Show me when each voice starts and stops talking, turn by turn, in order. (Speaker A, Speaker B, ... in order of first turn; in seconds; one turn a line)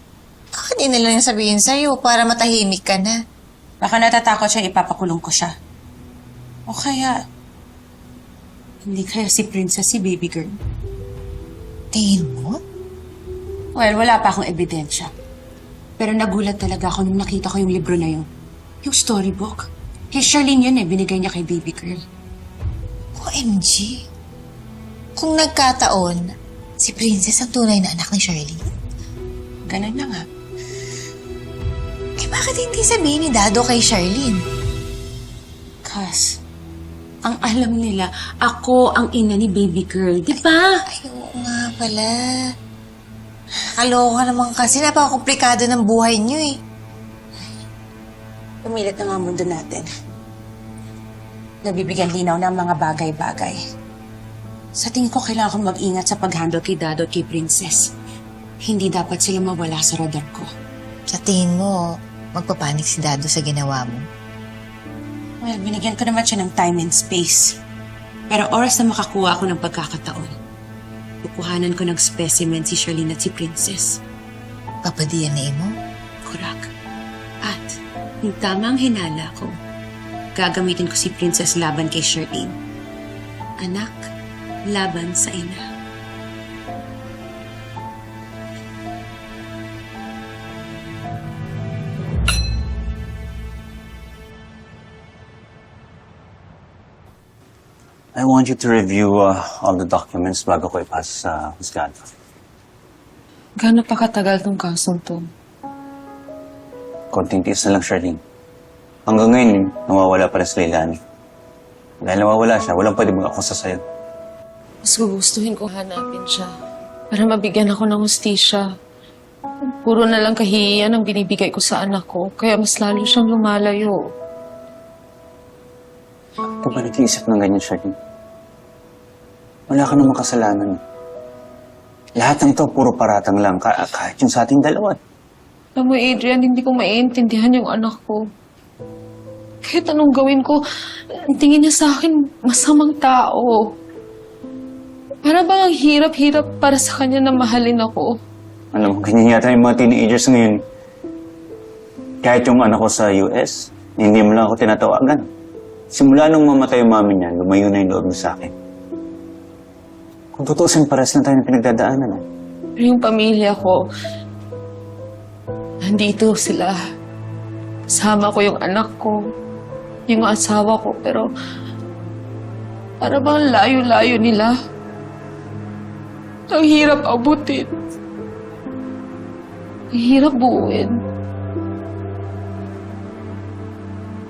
Speaker A: 0.6-3.2
Speaker B: 3.8-5.5
Speaker B: 6.7-7.2
Speaker B: 8.8-10.6
Speaker A: 11.9-12.6
Speaker B: 13.7-15.1
Speaker B: 16.0-18.3
Speaker B: 18.8-22.0
Speaker A: 23.1-24.0
Speaker A: 25.2-26.3
Speaker A: 26.8-28.6
Speaker B: 29.7-30.3
Speaker A: 32.2-34.4
Speaker B: 35.8-36.4
Speaker B: 37.2-40.8
Speaker A: 40.3-42.4
Speaker A: 43.8-46.6
Speaker B: 48.6-49.9
Speaker B: 51.6-53.6
Speaker B: 54.7-57.9
Speaker B: 58.6-60.5
Speaker A: 61.1-64.0
Speaker B: 65.4-67.6
Speaker B: 68.3-70.4
Speaker B: 71.2-74.0
Speaker A: 74.8-75.7
Speaker B: 76.2-76.7
Speaker B: 77.4-79.6
Speaker B: 80.3-82.6
Speaker B: 83.6-84.1
Speaker B: 84.6-85.7
Speaker C: 98.1-102.0
Speaker D: 103.6-105.2
Speaker C: 107.1-108.2
Speaker C: 109.0-111.0
Speaker C: 112.0-113.8
Speaker D: 114.8-116.5
Speaker D: 117.1-118.7
Speaker D: 119.8-124.0
Speaker C: 126.6-127.9
Speaker C: 129.7-130.8
Speaker C: 132.2-135.0
Speaker D: 135.8-138.2
Speaker D: 139.6-140.6
Speaker D: 141.3-143.7
Speaker D: 145.2-148.2
Speaker C: 148.7-150.6
Speaker C: 152.2-155.2
Speaker C: 155.9-158.5
Speaker C: 160.3-162.2
Speaker D: 162.8-163.8
Speaker D: 165.8-166.8
Speaker D: 167.9-169.2
Speaker D: 170.1-171.3
Speaker D: 173.0-174.5
Speaker D: 176.5-177.7
Speaker D: 179.9-180.9